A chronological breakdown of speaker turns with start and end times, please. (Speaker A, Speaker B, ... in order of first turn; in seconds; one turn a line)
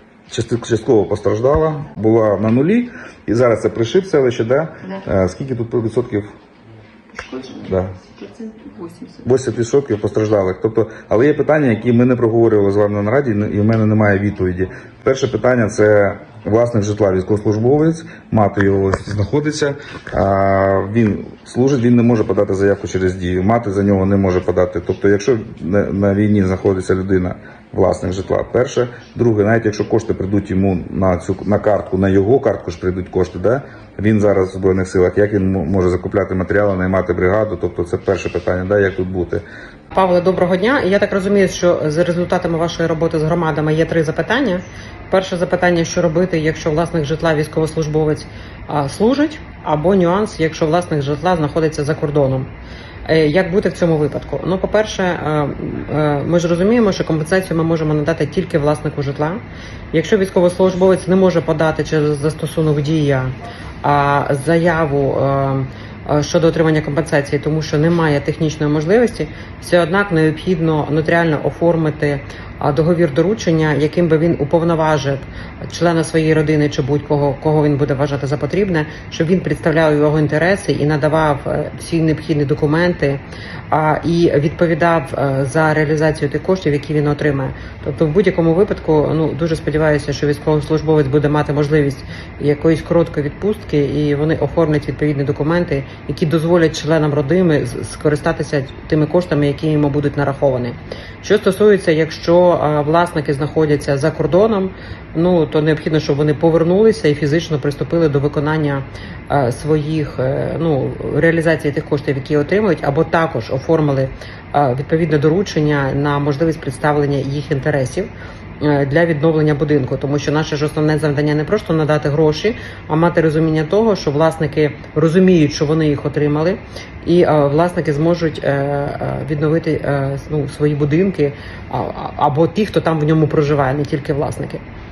Speaker A: 0.3-6.3
Speaker B: 7.1-9.3
Speaker A: 7.6-8.0
Speaker A: 9.2-39.4
Speaker C: 39.9-52.5
Speaker B: 49.8-50.3
Speaker C: 53.1-59.4
Speaker C: 59.9-134.6
Speaker B: 94.4-94.9
Speaker B: 96.6-97.1